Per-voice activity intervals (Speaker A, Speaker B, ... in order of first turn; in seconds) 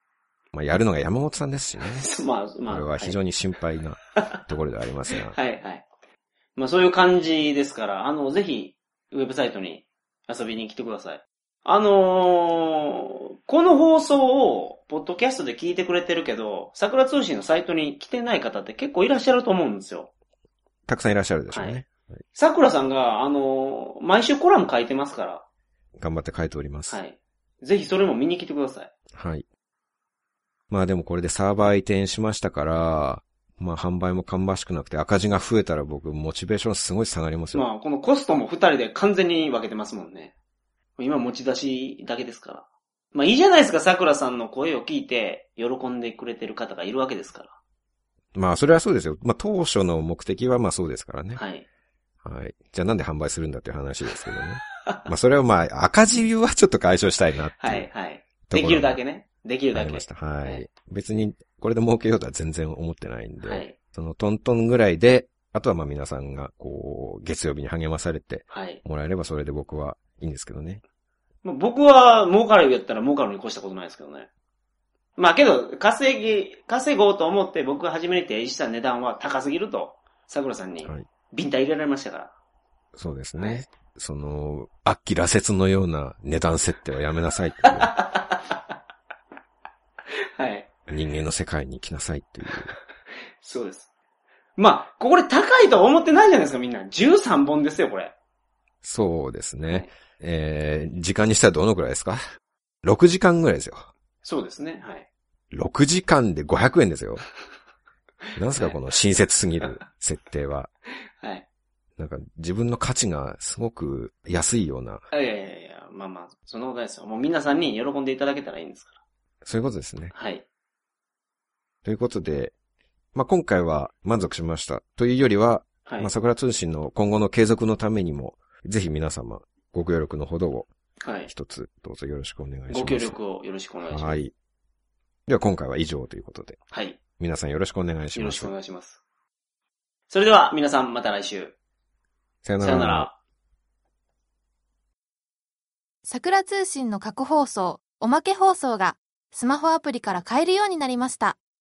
Speaker A: 0.5-2.1, 2.7-5.3, 20.9-22.0, 26.0-27.0, 29.1-29.4, 30.7-37.6, 48.3-51.4, 52.2-57.9, 58.5-59.0, 59.7-70.8, 82.9-87.9, 90.9-92.7, 98.8-102.2, 102.8-103.9, 105.5-107.2, 108.3-110.7, 112.0-115.0, 119.4-120.1, 121.8-122.5, 123.1-130.7, 131.3-133.2, 133.8-134.3, 135.3-136.6, 137.2-138.5, 142.4-143.1
Speaker B: 1.9-3.2, 5.3-5.8, 6.5-20.1, 21.5-21.8, 22.3-25.4, 26.9-28.9, 37.5-40.3, 41.0-47.5, 51.4-51.6, 57.6-60.6, 63.4-63.7, 68.5-68.8, 71.4-74.3, 75.2-82.3, 83.4-83.6, 87.7-88.4, 90.3-90.7, 93.4-93.9, 94.6-98.1, 104.2-105.1, 108.5-108.8, 111.2-111.4, 115.1-119.0, 120.1-120.4, 125.8-126.1, 131.0-131.3, 132.7-134.2, 136.7-137.0, 138.1-139.0, 140.1-141.5, 142.6-143.1
Speaker C: 146.0-151.4